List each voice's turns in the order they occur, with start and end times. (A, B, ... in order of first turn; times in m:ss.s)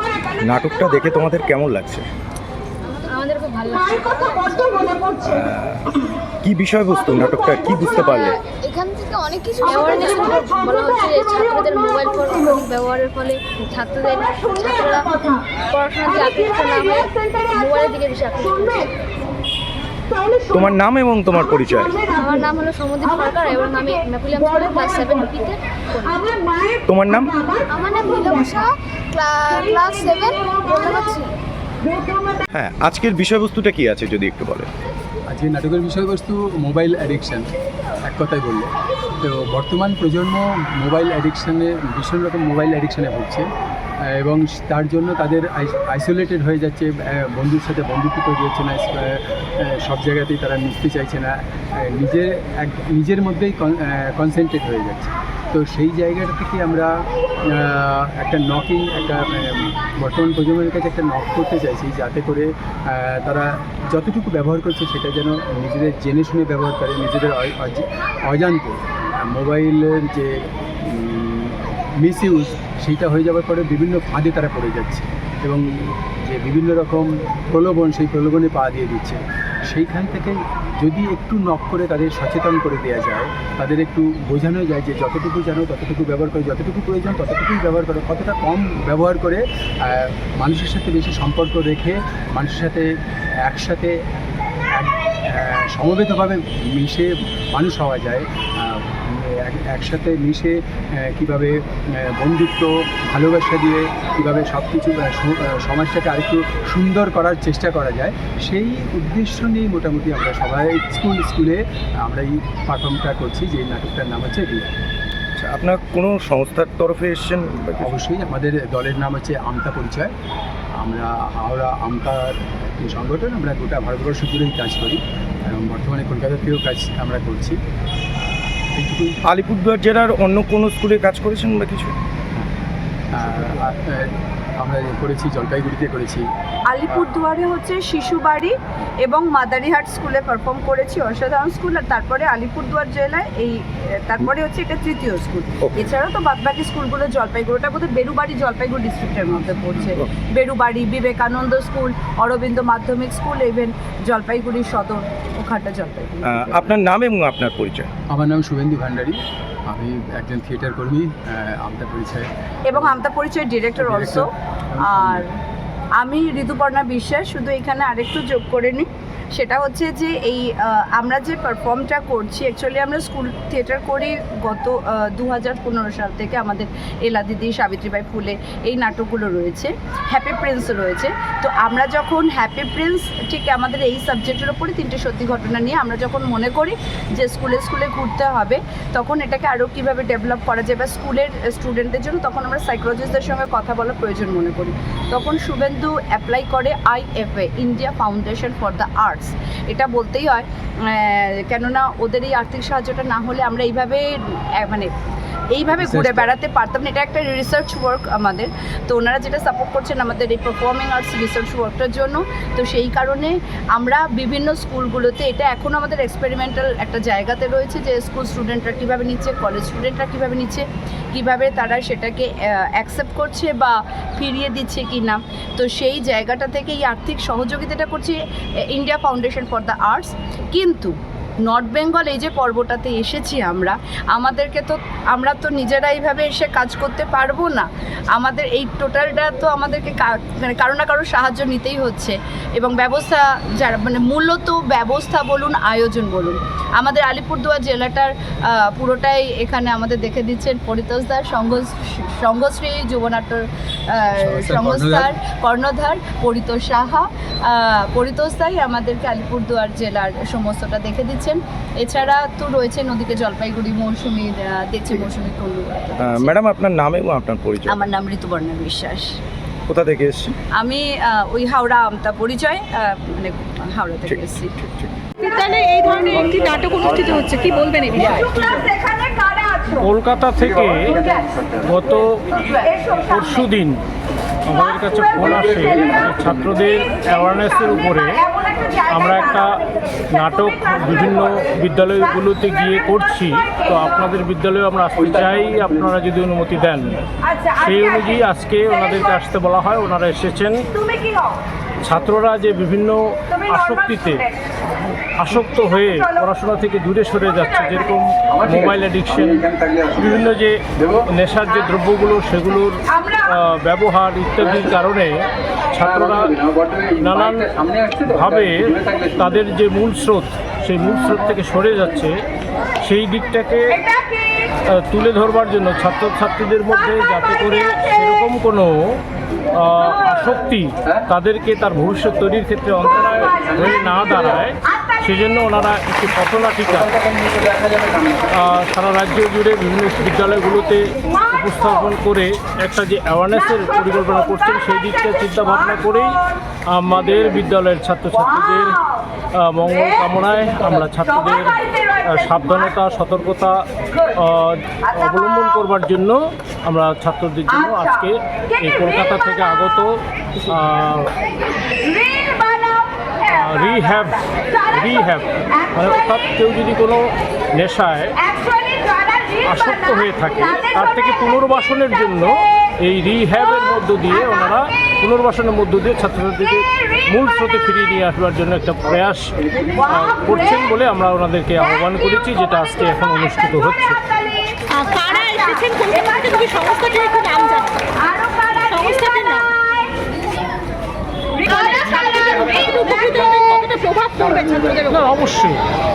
0:00.4-0:02.1 A
0:03.1-0:05.2 B
0:05.2-0:05.8 A
0:06.4-0:08.4 A
0:08.4-0:15.1 B
0:15.7-0:18.9 B
0:20.5-0:22.1 A
0:22.1-0:26.4 B
0:26.9-0:27.4 A
0:27.7-0:31.3 B
0:32.5-0:34.7 A
0:35.3-0:37.4 C
0:38.1-0:38.7 C
0:39.2-0:43.5 C
0:44.1-0:56.9 C
0:57.5-1:15.6 C
1:16.2-1:32.9 C
1:33.4-1:34.2 C
1:34.8-1:54.7 C
1:55.4-1:58.0 A
1:57.8-2:00.1 C
2:00.8-2:07.6 C
2:08.8-2:09.2 C
2:09.3-2:12.0 A
2:13.1-2:16.2 C
2:16.7-2:18.5 D
2:19.0-2:36.7 D
2:25.6-2:25.9 A
2:29.4-2:29.9 C
2:36.2-2:37.9 A
2:38.1-2:39.2 C
2:39.7-2:43.0 C
2:42.7-2:44.3 D
2:43.8-2:45.2 C
2:45.0-2:45.2 D
2:46.0-3:24.1 D
3:24.6-3:24.9 D
3:25.5-3:48.2 D
3:25.8-3:26.3 C
3:48.7-3:50.9 D
3:51.5-4:13.4 D
4:14.0-4:26.3 D
4:14.1-4:15.2 C
4:26.0-4:27.8 A
4:27.7-4:29.1 D
4:29.7-4:30.4 A
4:30.6-4:34.5 D
4:34.1-4:34.9 A
4:35.5-4:36.0 E
4:37.1-4:38.6 D
4:39.8-4:41.0 F
4:41.6-4:43.8 F
4:44.5-4:48.3 F
4:48.8-4:57.0 F
4:57.6-5:00.8 F
5:01.8-5:04.3 F
5:05.2-5:15.2 F
5:09.6-5:09.8 C
5:15.7-5:22.2 F
5:17.6-5:18.0 C
5:22.8-5:23.8 F
5:24.7-5:29.0 F
5:29.6-5:37.0 F
5:38.3-5:46.2 F
5:46.7-5:48.8 F
5:49.4-6:01.1 F
6:03.3-6:08.2 F
6:09.4-6:24.0 F
6:24.7-6:29.5 E
6:31.4-6:34.8 E
6:34.9-6:35.6 F